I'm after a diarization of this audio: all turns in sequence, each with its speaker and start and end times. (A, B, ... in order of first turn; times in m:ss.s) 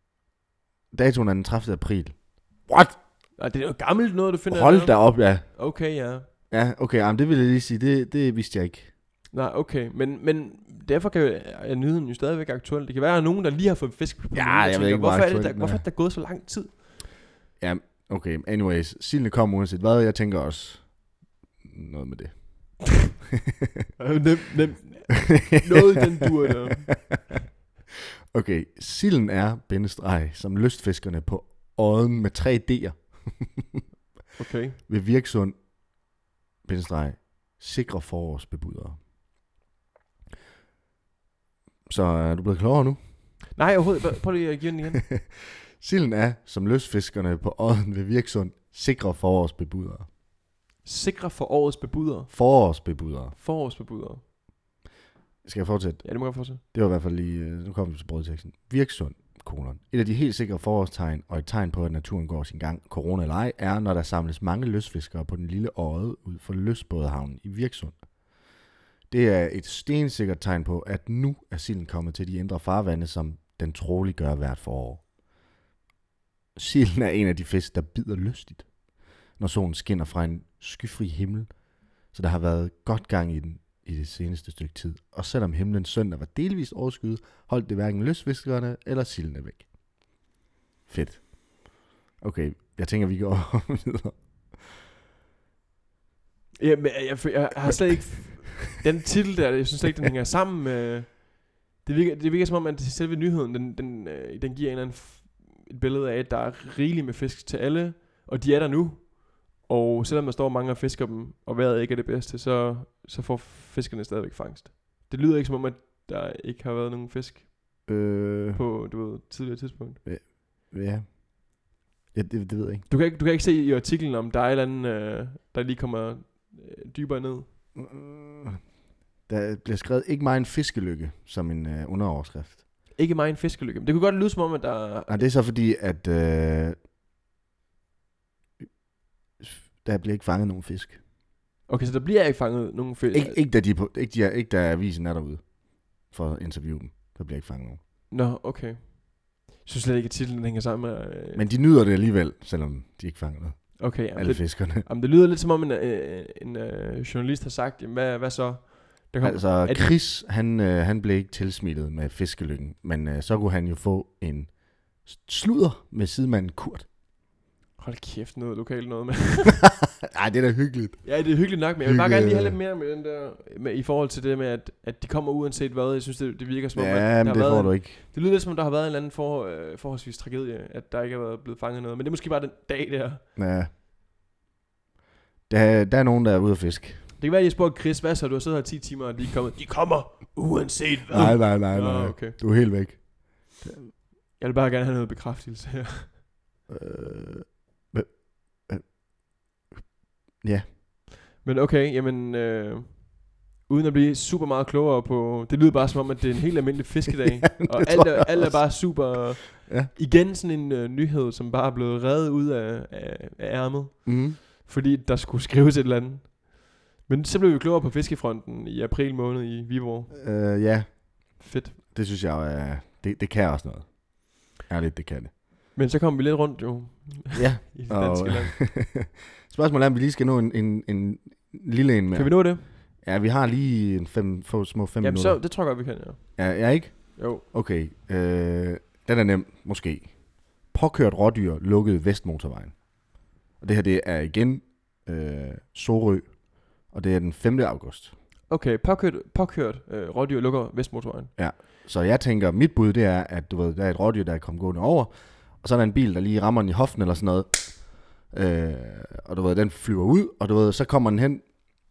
0:00.9-0:03.0 A
0:03.4-0:06.3 B
0:04.5-0:05.5 A
0:06.5-0:08.9 A
0:09.3-0:16.8 B
0:14.3-0:15.8 A
0:17.6-0:21.0 A
0:21.6-0:23.1 A
0:24.0-0:27.2 B
0:25.5-0:26.0 A
0:26.9-0:27.2 A
0:28.3-0:33.8 A
0:34.4-0:34.8 B
0:34.9-0:35.7 A
0:36.6-0:39.0 A
0:41.9-0:43.5 A
0:43.6-0:45.1 B
0:45.8-0:50.1 A
0:50.8-0:52.3 B
0:52.3-0:53.4 A
0:53.3-0:54.2 B
0:55.4-1:08.1 A
0:56.0-0:56.6 B
1:09.1-1:15.1 A
1:16.6-1:18.8 A
1:19.3-1:29.7 A
1:30.9-1:34.7 A
1:36.6-1:57.9 B
1:57.9-1:58.7 A
1:58.5-2:00.0 B
2:00.0-2:02.9 A
2:02.9-2:07.5 B
2:07.8-2:08.7 A
2:09.2-2:12.6 A
2:12.9-2:15.2 B
2:15.1-2:16.8 A
2:19.4-2:21.0 A
2:21.7-2:23.4 B
2:23.1-2:27.8 A
2:28.1-2:31.4 B
2:31.4-2:34.8 A
2:33.8-2:40.0 B
2:39.2-2:46.9 A
2:47.8-2:49.7 B
2:50.0-2:52.6 A
2:51.0-3:03.2 B
2:56.8-2:58.0 A
3:03.4-3:03.7 A
3:05.5-3:07.1 A
3:07.2-3:12.4 B
3:11.1-3:13.9 A
3:14.4-3:16.2 B
3:16.7-3:19.0 A
3:20.4-3:20.7 A
3:21.4-3:40.2 B
3:27.5-3:29.9 A
3:34.0-3:34.4 A
3:40.1-3:45.3 A
3:41.4-3:41.8 B
3:45.7-3:48.6 B
3:47.4-3:55.4 A
3:52.1-3:52.7 B
3:55.0-3:56.6 B
3:56.4-4:02.9 A
3:57.2-3:57.4 B
4:03.5-4:08.1 A
4:08.5-4:11.3 B
4:11.4-4:21.5 A